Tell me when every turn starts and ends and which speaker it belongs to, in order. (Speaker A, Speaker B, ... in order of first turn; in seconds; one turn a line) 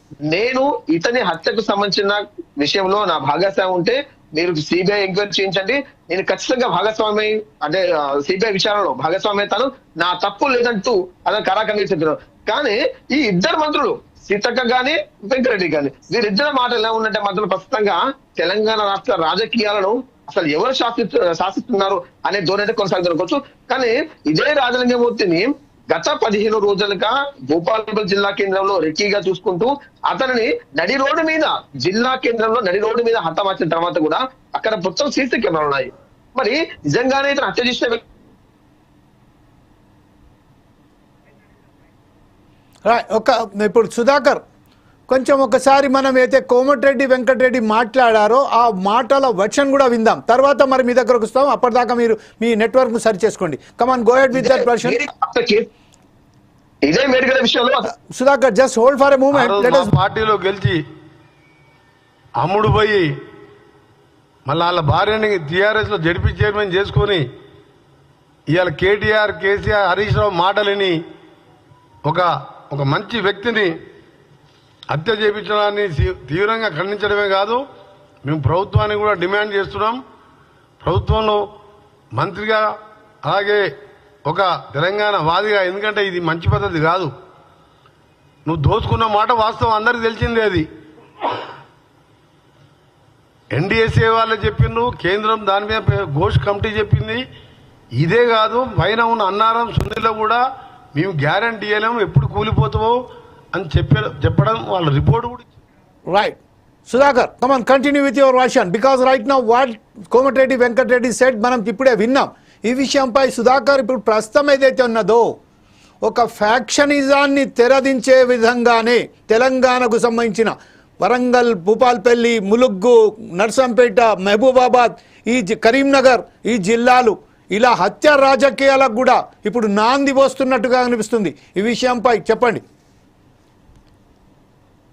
Speaker A: 0.3-38.0
Speaker B: 42.9-44.4
Speaker B: 45.1-55.0
Speaker A: 54.3-55.7
Speaker A: 56.8-57.9
Speaker B: 57.9-59.9
Speaker C: 59.3-60.8
Speaker C: 62.4-63.1
Speaker C: 64.5-67.2
Speaker C: 68.5-71.0
Speaker C: 72.0-73.7
Speaker C: 74.9-77.6
Speaker C: 78.2-80.0
Speaker C: 80.8-81.4
Speaker C: 82.2-82.7
Speaker C: 83.2-83.6
Speaker C: 84.3-87.1
Speaker C: 88.5-90.7
Speaker C: 93.5-97.2
Speaker C: 98.0-100.4
Speaker C: 100.9-102.9
Speaker C: 103.5-105.4
Speaker B: 106.1-115.3
Speaker B: 116.0-132.6